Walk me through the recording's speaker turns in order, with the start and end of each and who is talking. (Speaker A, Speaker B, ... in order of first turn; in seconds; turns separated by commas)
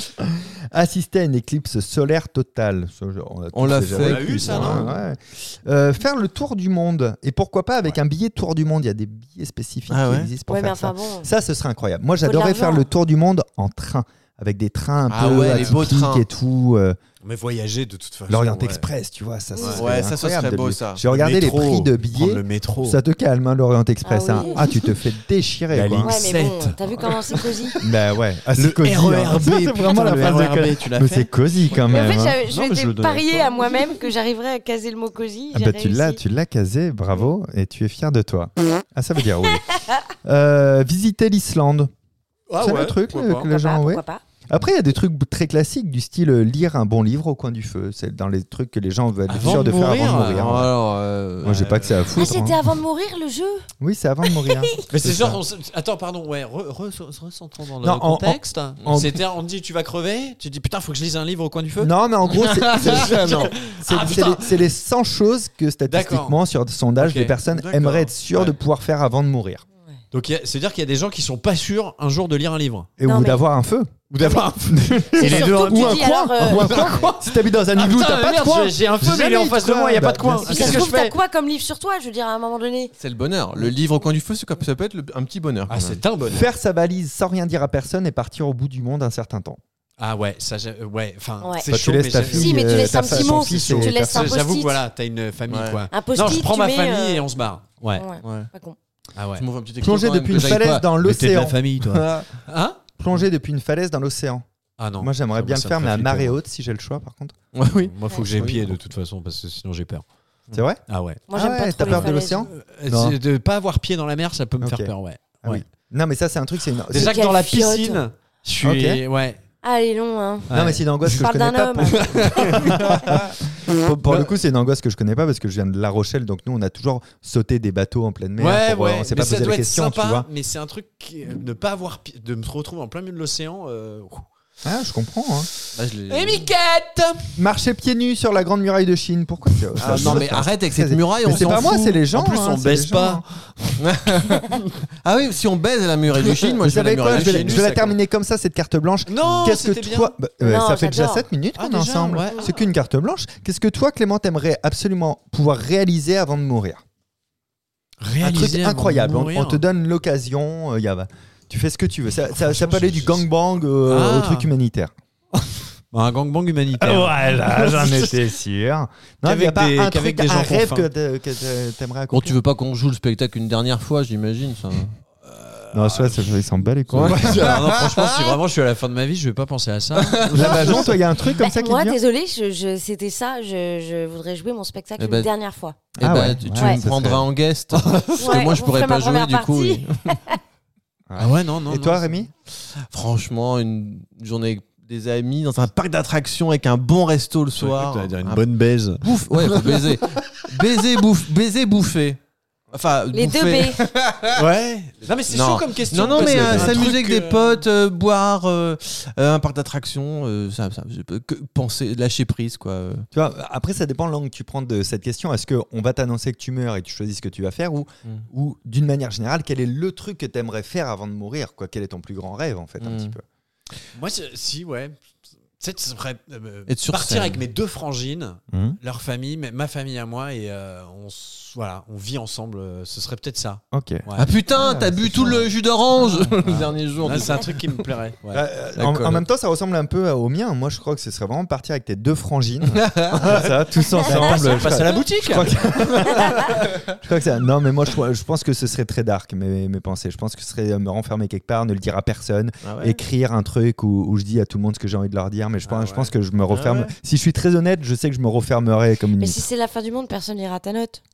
Speaker A: 0.2-17.0, Speaker B: 3.5-4.9, Speaker C: 3.9-5.0, Speaker B: 9.9-10.3, Speaker D: 10.4-11.3, Speaker D: 12.2-12.8, Speaker B: 15.1-16.2, Speaker C: 15.4-15.8, Speaker C: 17.2-18.9, Speaker A: 18.3-26.1, Speaker D: 19.5-19.8, Speaker B: 19.8-21.0, Speaker C: 21.1-23.0, Speaker D: 24.0-24.6, Speaker C: 24.5-24.8, Speaker C: 25.7-27.6, Speaker D: 26.0-27.8, Speaker A: 27.8-32.4, Speaker C: 28.5-33.9, Speaker D: 31.9-36.2, Speaker A: 35.5-41.9, Speaker C: 42.5-43.5, Speaker A: 42.6-50.7, Speaker D: 43.5-44.2, Speaker C: 49.3-50.4, Speaker B: 50.2-51.6, Speaker A: 51.4-52.6, Speaker C: 51.4-52.2, Speaker D: 52.1-53.7, Speaker A: 53.8-55.4, Speaker C: 54.9-64.6, Speaker A: 57.8-59.2, Speaker A: 61.8-69.6, Speaker B: 62.8-63.5, Speaker C: 65.9-66.4, Speaker C: 67.0-68.5, Speaker C: 70.1-72.9, Speaker A: 73.0-73.9, Speaker D: 73.0-73.4, Speaker C: 74.1-81.2, Speaker A: 74.6-80.8, Speaker D: 75.2-76.8, Speaker B: 76.8-77.0, Speaker D: 80.5-82.9, Speaker B: 83.0-86.0, Speaker C: 85.7-86.5, Speaker A: 86.3-89.6, Speaker C: 90.0-98.0, Speaker D: 91.4-91.7, Speaker A: 91.7-94.3, Speaker D: 92.2-94.8, Speaker B: 95.5-95.8, Speaker D: 95.9-97.2, Speaker D: 97.9-98.8, Speaker B: 98.2-98.5, Speaker C: 99.1-99.5, Speaker B: 99.4-100.8, Speaker A: 99.8-101.7, Speaker C: 100.4-102.8, Speaker B: 102.0-102.2, Speaker A: 103.0-104.4, Speaker C: 104.8-106.4, Speaker A: 105.0-107.3, Speaker B: 107.5-108.7, Speaker C: 107.8-110.0, Speaker A: 110.5-110.8, Speaker C: 110.9-111.2, Speaker D: 111.3-112.4, Speaker A: 111.3-113.2, Speaker C: 111.8-115.6, Speaker A: 114.6-114.9, Speaker A: 115.4-117.3, Speaker C: 116.9-119.4, Speaker D: 116.9-118.0, Speaker A: 118.6-119.0, Speaker D: 119.6-120.6, Speaker C: 120.5-121.2, Speaker A: 120.5-130.3, Speaker D: 121.2-122.6, Speaker C: 122.1-123.3, Speaker C: 124.0-124.3, Speaker C: 128.4-134.3, Speaker A: 134.6-135.5, Speaker C: 135.5-137.3, Speaker B: 135.7-136.5, Speaker A: 137.4-143.2, Speaker C: 139.8-140.4, Speaker B: 139.8-141.9, Speaker C: 141.2-144.6, Speaker B: 143.8-147.9, Speaker A: 146.6-156.8, Speaker C: 147.1-147.7, Speaker C: 149.1-150.1, Speaker D: 150.4-151.2, Speaker C: 151.5-152.7, Speaker C: 158.0-159.6, Speaker A: 158.2-164.9, Speaker C: 162.3-163.2, Speaker C: 163.8-164.5, Speaker C: 165.9-168.2, Speaker A: 166.7-172.4, Speaker C: 169.2-170.9, Speaker B: 172.1-174.9, Speaker C: 175.2-180.9, Speaker A: 175.7-177.6, Speaker B: 176.9-178.0, Speaker B: 180.1-180.9, Speaker A: 180.3-182.0, Speaker D: 181.4-185.8, Speaker B: 185.0-185.3, Speaker A: 186.0-187.3, Speaker B: 186.0-190.2, Speaker D: 188.2-190.4, Speaker A: 191.1-192.3, Speaker C: 191.1-192.2, Speaker B: 192.7-198.4, Speaker C: 197.6-199.9, Speaker B: 199.0-202.2, Speaker B: 202.7-204.3, Speaker D: 203.1-203.8, Speaker C: 204.3-207.6, Speaker B: 205.3-213.0, Speaker A: 206.0-206.8, Speaker A: 213.1-223.2, Speaker B: 222.8-223.2, Speaker C: 223.9-225.0, Speaker C: 225.6-235.4, Speaker B: 226.7-227.4, Speaker A: 228.5-228.8, Speaker A: 233.7-235.5, Speaker B: 234.2-237.6, Speaker C: 236.2-239.2, Speaker A: 238.3-259.4, Speaker B: 242.7-243.1, Speaker C: 243.9-245.6, Speaker B: 252.6-253.0, Speaker C: 255.7-256.1, Speaker B: 256.5-256.9, Speaker D: 259.2-261.0